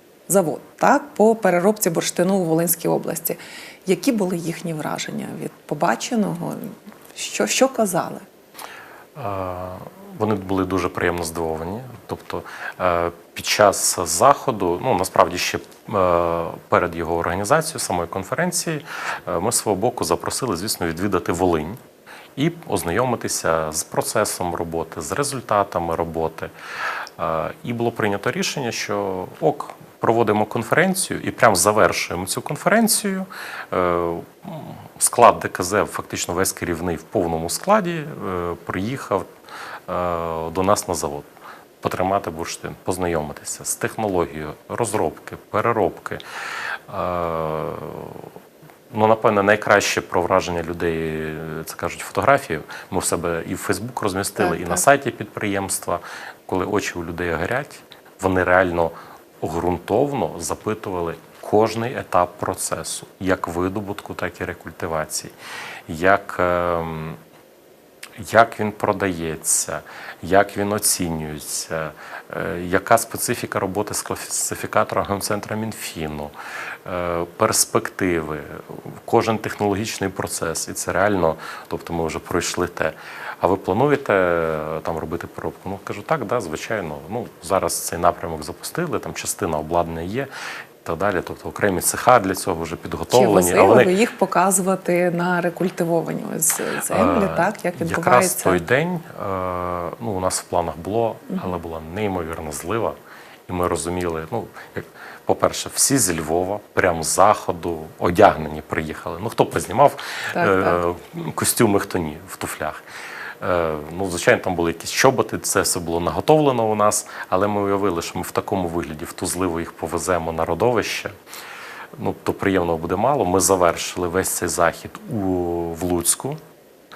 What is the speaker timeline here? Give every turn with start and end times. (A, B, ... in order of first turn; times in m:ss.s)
0:00.3-0:08.2 A
0:09.2-0:21.8 B
0:22.4-0:26.5 B
0:27.2-0:39.3 B
0:39.9-0:41.3 B
0:41.8-0:48.3 B
0:48.9-1:05.3 B
0:54.5-0:54.8 A
1:05.9-1:07.2 B
1:08.2-1:16.3 B
1:16.8-1:30.3 B
1:30.8-1:34.0 B
1:33.1-1:38.6 A
1:36.9-1:52.8 B
1:50.3-1:50.8 A
1:53.4-2:01.2 B
2:01.9-2:06.4 B